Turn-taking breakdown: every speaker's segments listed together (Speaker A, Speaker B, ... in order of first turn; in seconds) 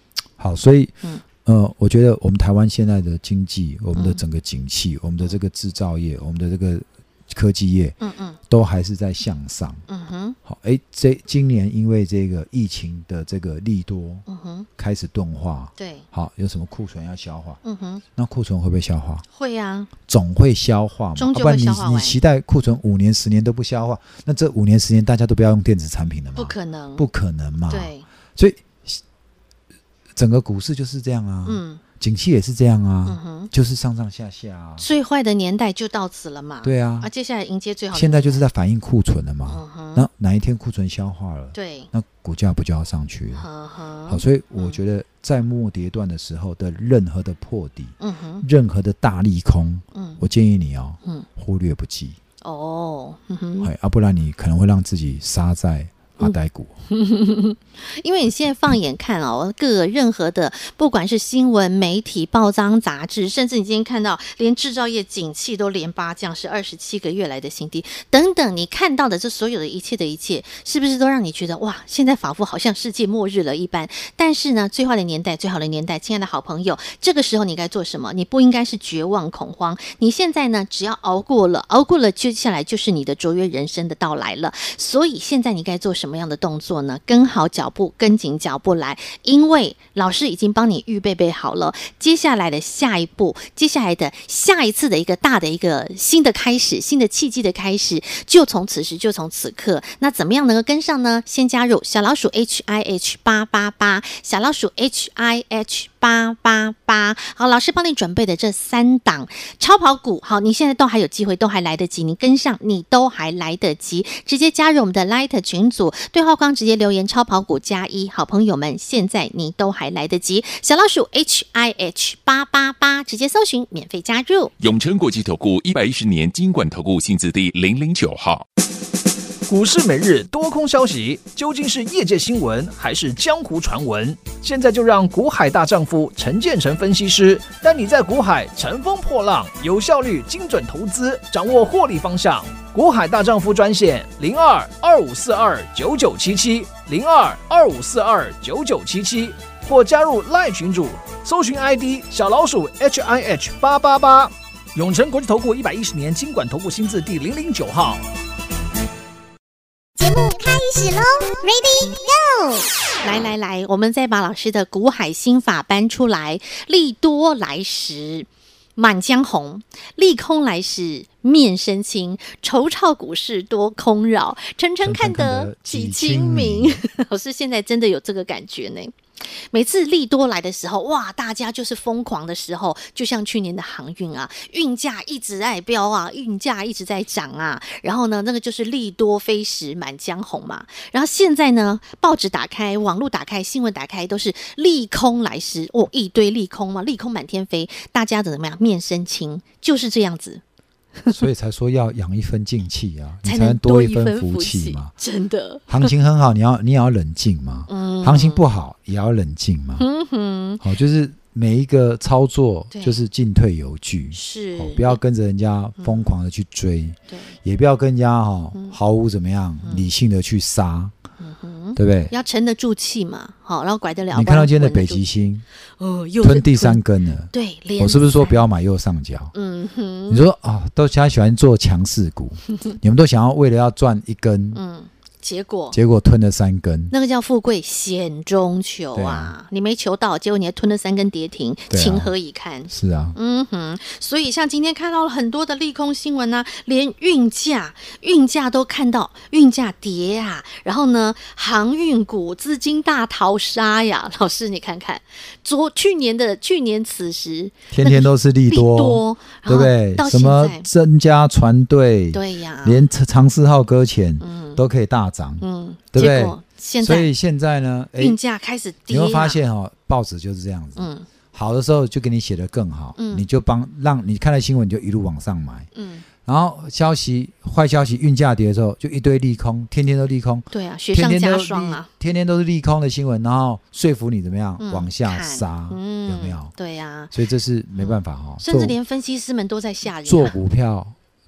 Speaker A: 0.4-9.8, 10.4-14.2, 14.8-17.6, 18.1-19.2, 20.1-29.0, 30.1-34.9, 36.6-37.1, 37.9-43.5, 44.1-52.2, 53.6-56.8, 174.8-176.8, 201.1-204.9, 205.7-209.9, 210.6-220.9, 221.8-222.1, 224.1-225.4, 226.2-229.3, 230.1-234.6, 235.7-236.9, 238.9-239.3, 241.7-242.1, 242.7-243.2, 257.7-268.2, 268.9-275.7, 276.2-286.5, 287.1-288.8, 289.9-290.9
Speaker B: 3.9-4.2, 8.0-8.4, 9.9-10.4, 14.3-14.7, 15.8-16.1, 17.6-18.0, 19.3-19.9, 21.1-22.1, 26.4-27.0, 27.7-28.0, 31.4-31.8, 33.0-33.5, 34.8-38.4, 39.5-40.1, 41.5-41.9, 43.3-44.8, 48.0-48.4, 49.9-50.2, 52.4-53.7, 56.9-124.5, 163.0-200.4, 203.2-205.9, 207.7-208.4, 209.8-210.6, 212.7-213.0, 214.1-215.0, 215.8-216.1, 217.1-217.3, 221.2-225.0, 225.8-228.4, 229.3-230.2, 234.5-235.8, 236.9-260.7, 262.1-262.9, 264.2-264.6, 265.4-267.1, 268.0-269.4, 270.8-271.1, 272.9-273.2, 275.7-276.0, 280.5-281.9, 284.6-287.1, 287.7-290.4
Speaker C: 124.6-128.4
Speaker D: 129.5-158.0
Speaker E: 160.0-162.7